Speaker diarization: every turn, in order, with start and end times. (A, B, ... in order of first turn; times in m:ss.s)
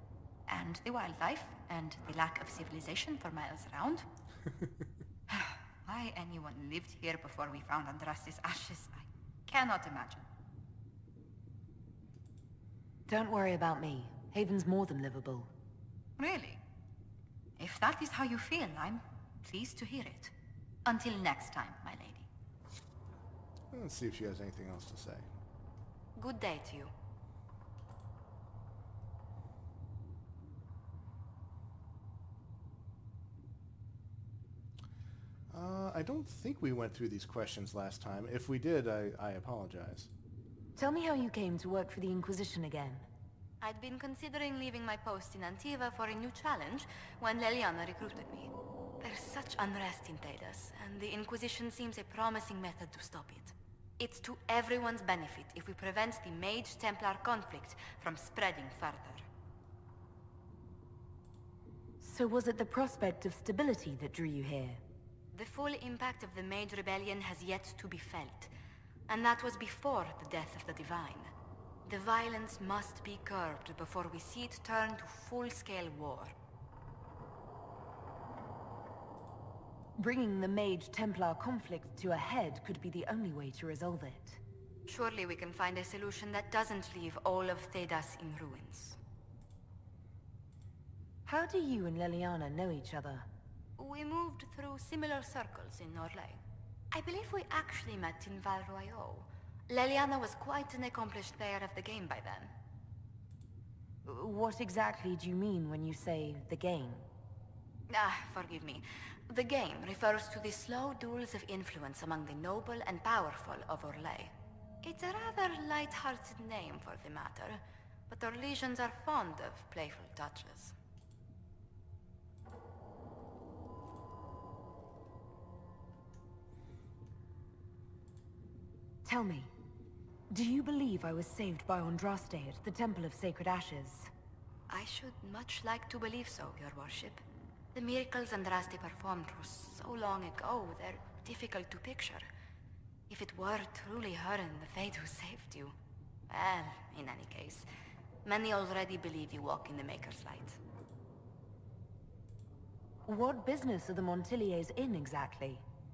0:00.5-0:04.1 A
0:05.3-0:10.2 A
0:13.1-0:15.5 B
0:16.2-0:16.6 A
0:17.6-0:20.3 A
0:20.8-0:22.3 A
0:23.7-0:25.3 C
0:26.2-0:26.9 A
0:35.5-0:40.1 C
0:40.8-0:43.0 B
0:43.6-0:59.3 A
1:02.0-1:04.8 B
1:05.3-1:08.5 A
1:09.1-1:11.3 A
1:11.8-1:16.3 A
1:20.0-1:24.4 B
1:24.9-1:29.0 A
1:31.2-1:33.3 B
1:33.8-1:42.5 A
1:44.0-1:47.1 B
1:47.9-2:00.8 A
2:09.0-2:09.5 B
2:10.3-2:14.1 B
2:14.7-2:22.3 A
2:23.1-2:25.8 A
2:26.3-2:27.7 A
2:28.2-2:30.6 A
2:33.0-2:35.6 B